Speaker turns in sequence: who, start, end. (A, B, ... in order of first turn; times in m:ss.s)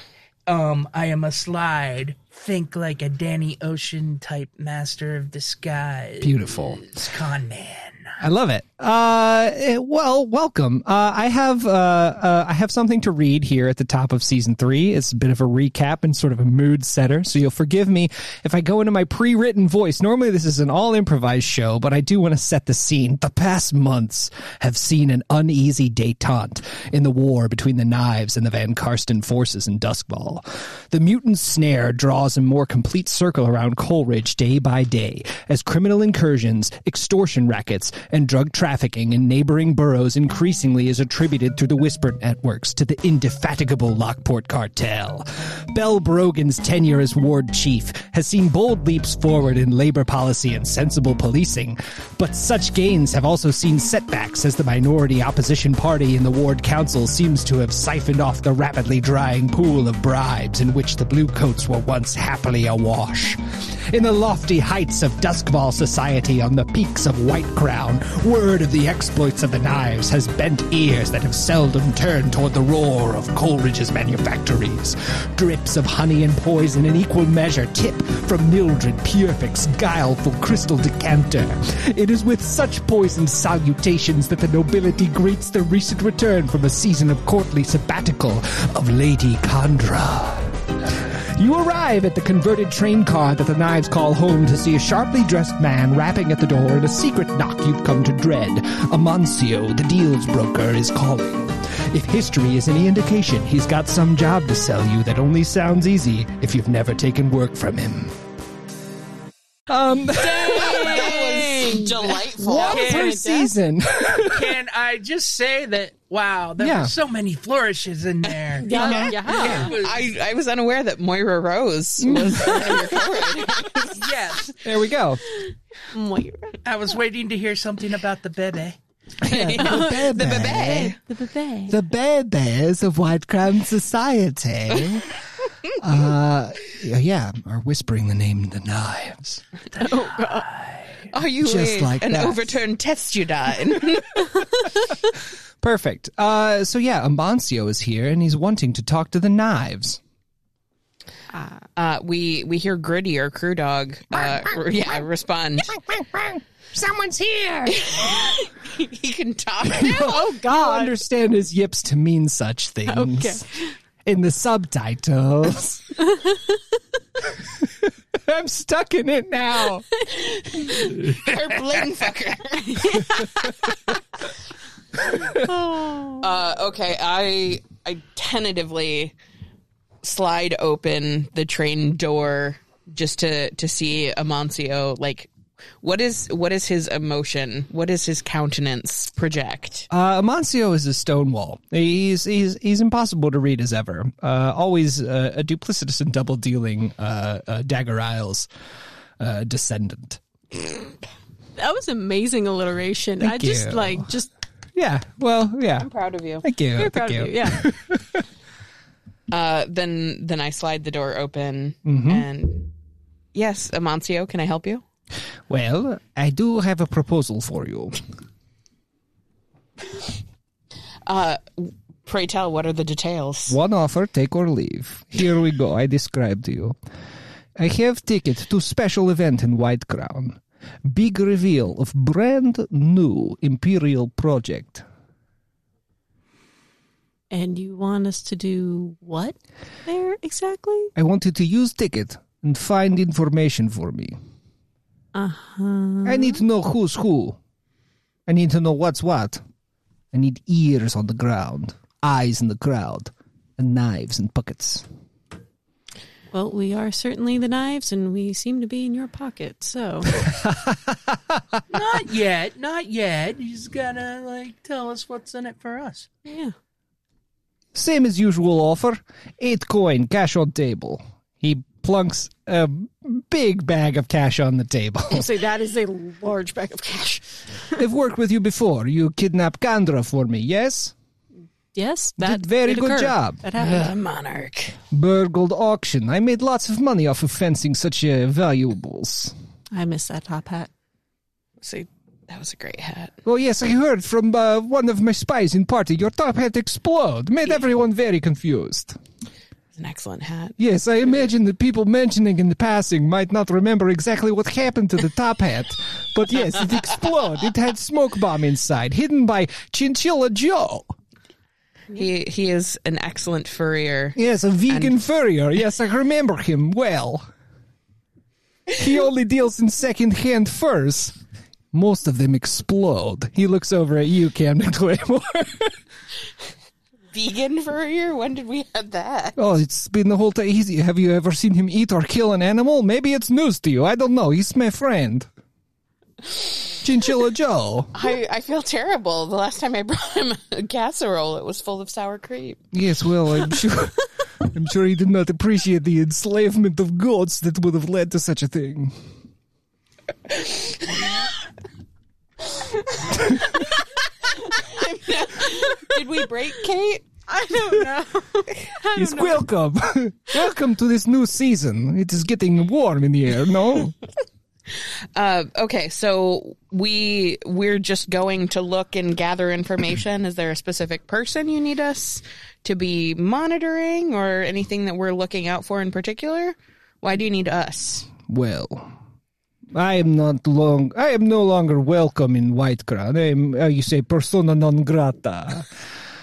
0:00.5-0:08.2 A
0:06.2-0:06.8 B
0:08.2-1:48.2 B
1:49.7-1:51.2 B
1:50.2-1:53.3 C
1:50.5-1:53.5 D
1:52.4-1:54.5 B
1:54.2-2:00.1 A
1:56.6-1:56.9 B
1:58.6-1:59.8 D
1:58.7-2:04.2 C
1:58.7-1:59.7 B
2:02.0-2:03.3 B
2:03.9-2:04.5 A
2:04.6-2:05.3 B
2:05.9-2:06.6 D
2:06.6-2:08.8 A
2:09.2-2:10.9 B
2:09.2-2:11.0 C
2:09.5-2:11.8 D
2:11.7-2:15.1 B
2:15.7-2:19.4 B
2:19.7-2:20.5 D
2:19.9-2:21.0 A
2:21.1-2:24.4 C
2:21.4-2:22.6 B
2:25.6-2:30.0 B
2:31.3-2:31.6 D
2:31.8-2:35.7 C
2:35.7-2:38.0 B
2:37.7-2:40.3 C
2:39.7-2:43.4 B
2:39.8-2:40.9 D
2:42.9-2:43.7 D
2:44.0-2:45.9 B
2:46.3-2:46.6 D
2:47.6-2:49.8 B
2:50.3-2:53.3 C
2:52.9-2:53.2 D
2:55.1-2:55.5 B
2:55.3-2:56.2 D
2:56.2-2:59.2 C
3:00.0-3:05.3 C
3:05.8-3:09.9 C
3:09.9-3:18.5 B
3:19.2-3:20.2 B
3:21.6-3:24.3 D
3:23.2-3:24.1 B
3:24.7-3:25.9 B
3:25.8-3:26.4 C
3:26.4-3:28.2 B
3:26.8-3:27.6 D
3:29.3-3:32.7 C
3:31.8-3:32.2 B
3:33.3-3:34.8 C
3:35.5-3:38.0 B
3:41.0-3:43.6 C
3:43.5-3:46.8 B
3:47.6-3:54.8 B
3:57.3-4:00.9 D
4:01.0-4:04.2 B
4:05.1-4:06.4 D
4:06.0-4:07.4 B
4:08.3-4:09.4 B
4:10.1-4:14.8 B
4:16.3-4:20.1 D
4:20.1-4:21.8 B
4:21.7-4:26.1 A
4:26.2-4:26.5 D
4:27.7-4:35.3 B
4:35.1-4:37.4 D
4:37.7-4:40.9 B
4:41.7-4:43.9 D
4:42.2-4:43.4 B
4:43.5-4:44.8 C
4:44.9-4:49.3 B
4:49.7-4:50.7 D
4:51.6-4:53.2 C
4:53.2-4:59.0 B
4:59.8-5:00.6 C
5:00.6-5:10.9 B
5:11.9-5:14.2 C
5:14.2-5:17.3 B
5:14.7-5:15.0 C
5:18.7-5:21.2 B
5:21.7-5:25.7 B
5:27.1-5:29.4 C
5:29.4-5:35.3 B
5:36.8-5:38.0 B
5:37.9-5:42.6 C
5:42.7-5:49.0 B
5:50.4-5:51.0 C
5:52.5-5:53.7 C
5:53.2-5:53.4 B
5:54.2-5:57.0 C
5:57.3-5:59.5 D
5:58.9-6:04.0 B
6:04.7-6:18.1 C
6:18.2-6:18.9 B
6:19.7-6:25.9 B